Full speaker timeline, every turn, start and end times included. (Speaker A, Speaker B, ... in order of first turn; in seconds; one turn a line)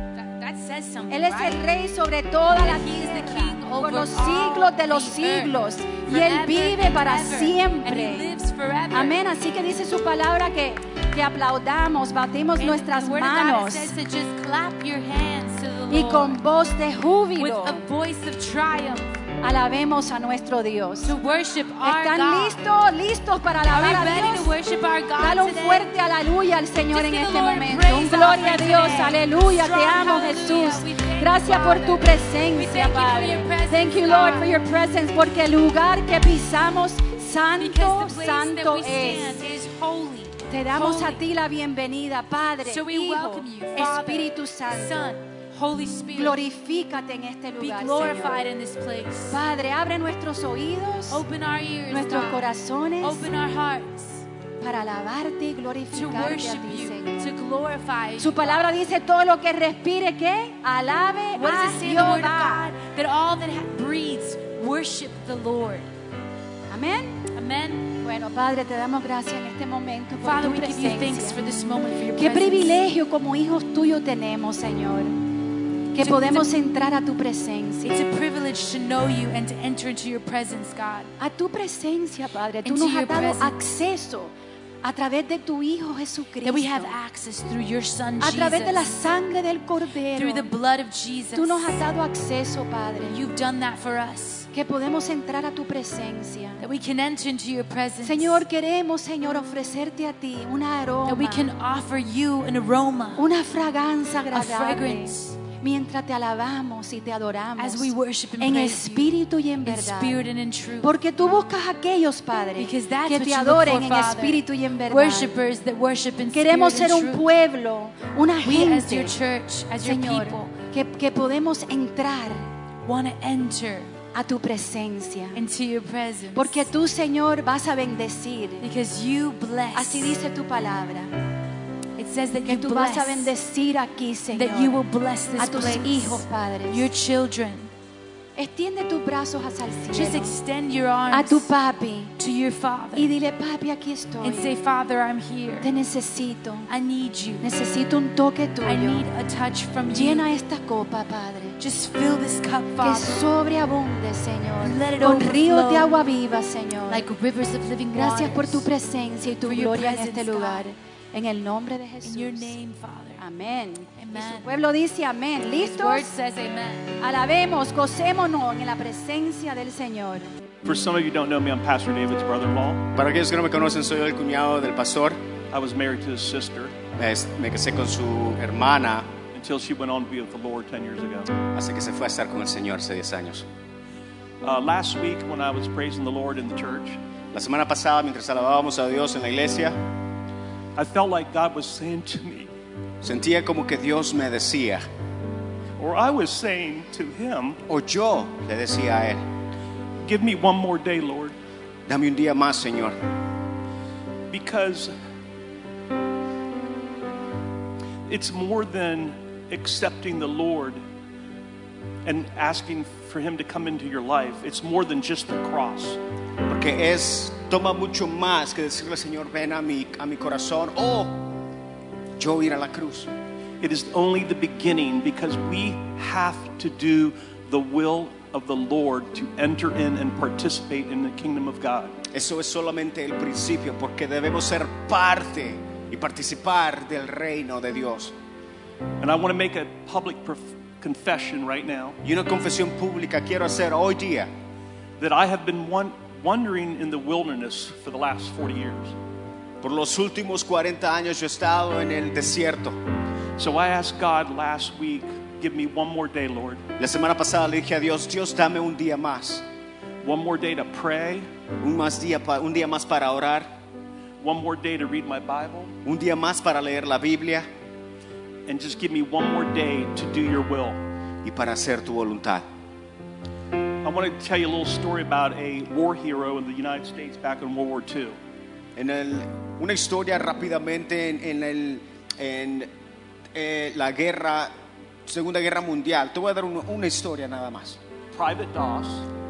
Speaker A: 0.1-1.6
Speaker B: 1.1-8.3
Speaker A: 2.5-9.2
Speaker B: 8.9-13.9
Speaker A: 12.6-16.4
Speaker B: 15.9-17.8
Speaker A: 17.4-19.1
Speaker B: 19.4-21.1
Speaker A: 21.0-22.6
Speaker B: 21.8-24.6
Speaker A: 23.7-25.9
Speaker B: 25.2-39.4
Speaker A: 26.9-34.5
Speaker A: 37.6-41.2
Speaker B: 40.5-45.2
Speaker A: 42.6-46.4
Speaker B: 46.1-48.4
Speaker A: 47.6-49.4
Speaker B: 49.3-51.2
Speaker A: 51.1-52.5
Speaker B: 51.9-53.3
Speaker A: 53.0-54.2
Speaker B: 54.6-57.3
Speaker A: 55.9-58.7
Speaker B: 58.2-62.7
Speaker A: 61.3-65.9
Speaker B: 66.7-67.3
Speaker A: 67.3-67.9
Speaker B: 68.0-71.4
Speaker A: 70.2-72.8
Speaker B: 72.2-75.1
Speaker B: 75.9-77.9
Speaker A: 76.0-76.5
Speaker A: 77.8-81.1
Speaker B: 81.2-86.9
Speaker A: 82.6-83.5
Speaker A: 86.4-88.9
Speaker B: 88.2-90.5
Speaker A: 90.2-91.8
Speaker B: 91.3-93.2
Speaker A: 93.1-94.5
Speaker B: 94.5-96.6
Speaker A: 96.6-98.4
Speaker B: 98.0-101.5
Speaker A: 101.0-103.3
Speaker B: 103.2-110.2
Speaker A: 104.3-105.3
Speaker A: 107.6-109.1
Speaker A: 109.6-110.9
Speaker B: 110.8-115.3
Speaker A: 112.6-117.2
Speaker B: 116.3-119.2
Speaker A: 118.4-120.4
Speaker B: 119.8-122.5
Speaker A: 122.8-123.9
Speaker B: 124.1-125.4
Speaker A: 125.3-126.7
Speaker B: 126.3-128.6
Speaker A: 128.6-130.2
Speaker B: 129.7-131.1
Speaker A: 132.0-133.3
Speaker B: 132.4-134.8
Speaker A: 134.3-137.7
Speaker B: 135.4-136.8
Speaker B: 138.3-140.3
Speaker A: 139.9-141.5
Speaker B: 141.1-142.1
Speaker A: 142.2-143.1
Speaker B: 142.9-144.6
Speaker A: 144.2-145.7
Speaker B: 145.6-146.7
Speaker A: 146.7-147.5
Speaker B: 147.4-149.0
Speaker A: 148.6-150.3
Speaker B: 149.9-151.6
Speaker A: 151.6-153.2
Speaker B: 152.8-157.1
Speaker A: 154.6-155.9
Speaker A: 156.9-158.7
Speaker B: 157.9-162.5
Speaker A: 159.4-160.6
Speaker A: 162.0-163.2
Speaker B: 163.2-166.1
Speaker A: 164.0-164.5
Speaker A: 165.6-166.9
Speaker B: 167.0-170.3
Speaker C: 170.6-172.9
Speaker D: 172.9-175.2
Speaker C: 175.5-176.7
Speaker D: 177.0-179.1
Speaker C: 179.3-181.3
Speaker D: 181.5-183.4
Speaker C: 184.4-187.0
Speaker D: 187.3-189.8
Speaker C: 190.8-192.5
Speaker D: 193.0-194.8
Speaker C: 195.8-197.6
Speaker D: 197.7-199.2
Speaker C: 200.0-201.3
Speaker D: 201.9-202.9
Speaker C: 204.3-204.9
Speaker C: 208.1-210.8
Speaker C: 212.0-216.0
Speaker D: 216.5-221.2
Speaker D: 222.2-223.1
Speaker C: 223.6-231.9
Speaker D: 232.1-238.1
Speaker C: 239.0-242.0
Speaker D: 242.0-244.3
Speaker C: 245.0-248.9
Speaker D: 249.6-252.8
Speaker C: 253.4-256.6
Speaker D: 256.8-259.4
Speaker C: 260.0-261.3
Speaker D: 261.6-263.5
Speaker C: 264.2-265.7
Speaker D: 265.8-267.5
Speaker C: 268.4-270.8
Speaker D: 271.2-272.4
Speaker C: 273.8-278.2
Speaker D: 278.8-282.7
Speaker D: 283.3-284.5
Speaker D: 285.0-287.8
Speaker C: 288.1-289.1